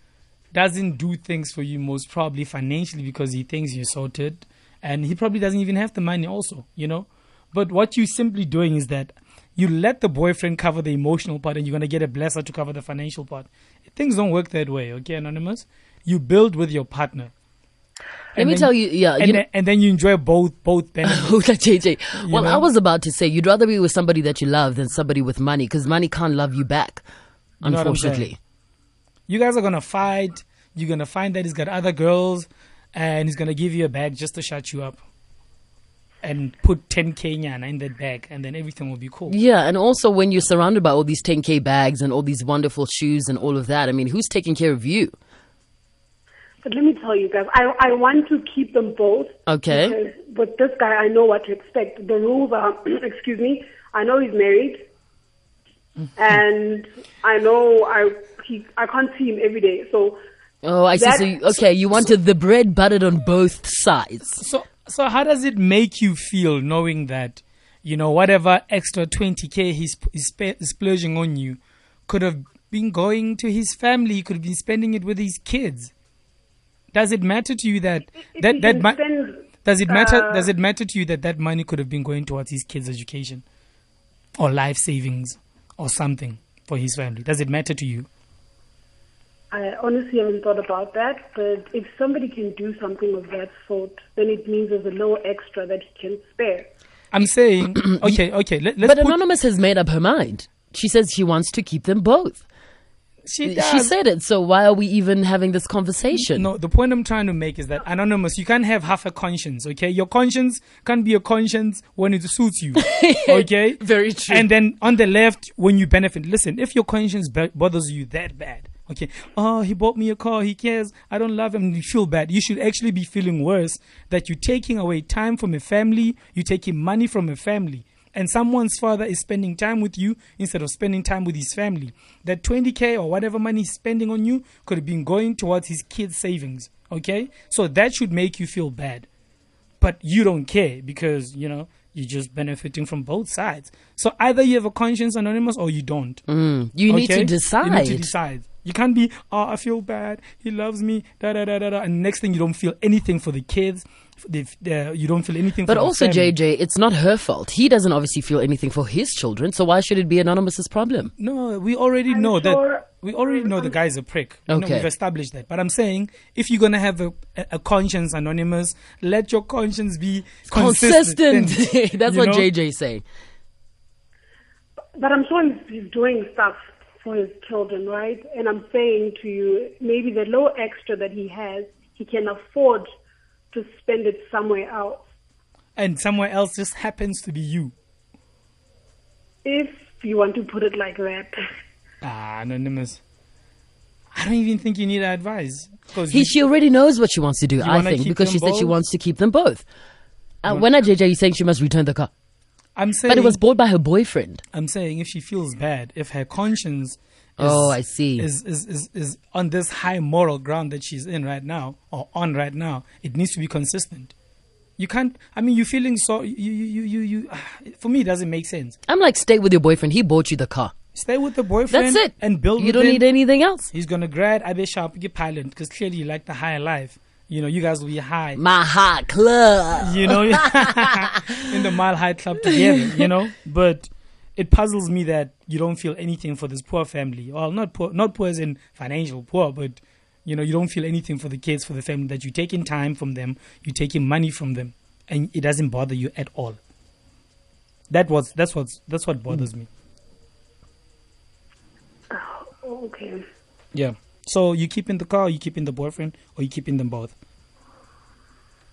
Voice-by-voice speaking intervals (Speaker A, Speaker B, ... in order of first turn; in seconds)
Speaker A: 0.5-17.3, 18.3-21.4, 22.1-22.7, 27.6-28.3, 29.3-35.0, 36.2-39.3, 64.4-75.9, 76.9-79.0, 79.6-83.4, 84.3-88.1, 97.1-99.2, 103.2-103.9, 106.1-139.1, 139.8-146.2, 146.9-156.3, 161.2-172.5, 185.8-187.7, 192.0-193.0, 194.1-196.3, 197.6-198.8, 202.8-203.4, 204.5-214.1, 214.8-218.8, 220.9-223.0, 223.7-228.4, 229.8-246.6, 247.9-249.7, 253.7-257.1
Speaker B: 18.4-19.4, 21.1-27.0, 27.6-28.4, 39.3-45.1, 49.5-50.0, 60.6-64.4, 97.8-98.1, 98.8-102.4, 103.4-106.5, 112.8-114.5, 146.3-148.1, 155.7-161.1, 164.5-164.9, 170.5-173.0, 196.1-199.6, 200.4-202.1, 203.1-204.4, 207.4-208.3, 218.9-220.7, 221.7-223.7, 228.3-230.4, 232.5-233.1
Speaker C: 46.6-54.8, 56.1-60.2, 60.9-61.5, 78.3-80.5, 89.5-96.7, 162.1-163.8, 174.9-182.8, 183.5-185.0, 189.4-191.3, 252.1-253.2